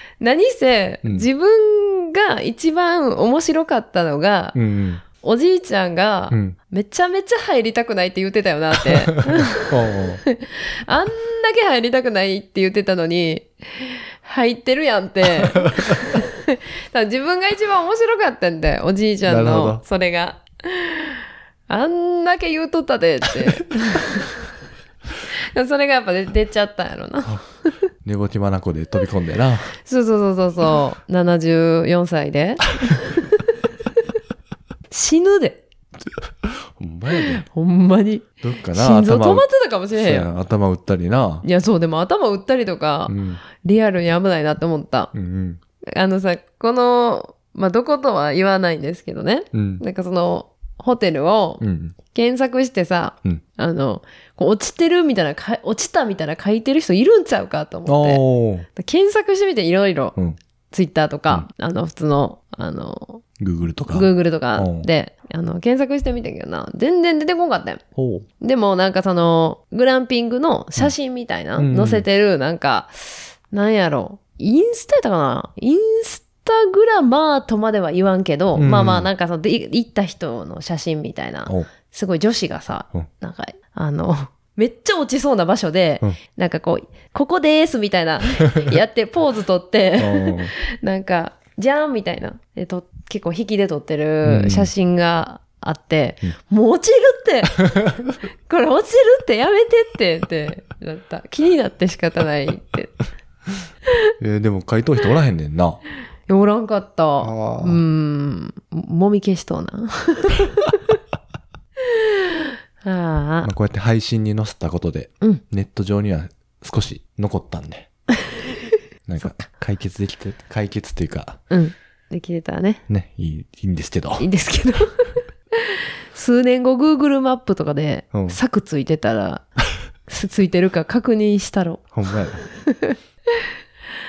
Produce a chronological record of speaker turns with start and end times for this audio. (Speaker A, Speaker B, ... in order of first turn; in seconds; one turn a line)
Speaker A: 0.2-4.6
Speaker B: 4.5-5.0
Speaker A: 5.1-9.8
Speaker B: 6.3-6.6
Speaker B: 9.0-10.2
Speaker A: 10.3-24.4
Speaker B: 15.6-16.0
Speaker B: 19.2-19.8
Speaker A: 25.3-27.7
Speaker B: 28.0-29.8
Speaker A: 29.8-33.6
Speaker A: 34.9-35.6
Speaker B: 36.1-37.5
Speaker A: 37.2-40.3
Speaker B: 38.4-41.5
Speaker A: 41.4-45.1
Speaker B: 43.1-43.4
Speaker B: 45.1-45.6
Speaker A: 45.9-60.2
Speaker B: 49.5-49.8
Speaker B: 51.6-52.0
Speaker B: 57.9-58.7
Speaker A: 60.7-63.2
Speaker B: 63.4-64.9
Speaker A: 63.9-67.8
Speaker B: 68.0-68.3
Speaker A: 68.4-97.8
Speaker B: 71.6-72.1
Speaker B: 78.5-79.1
Speaker B: 90.0-90.5
Speaker B: 94.2-94.7
Speaker A: 98.5-103.0
Speaker B: 104.2-105.8
Speaker A: 106.3-111.0
Speaker B: 107.2-107.8
Speaker A: 111.9-113.5
Speaker B: 113.4-117.9
Speaker B: 119.1-121.4
Speaker A: 121.5-122.8
Speaker B: 122.9-124.3
Speaker A: 124.2-129.4
Speaker B: 128.1-128.4
Speaker A: 130.1-133.5
Speaker B: 131.9-132.4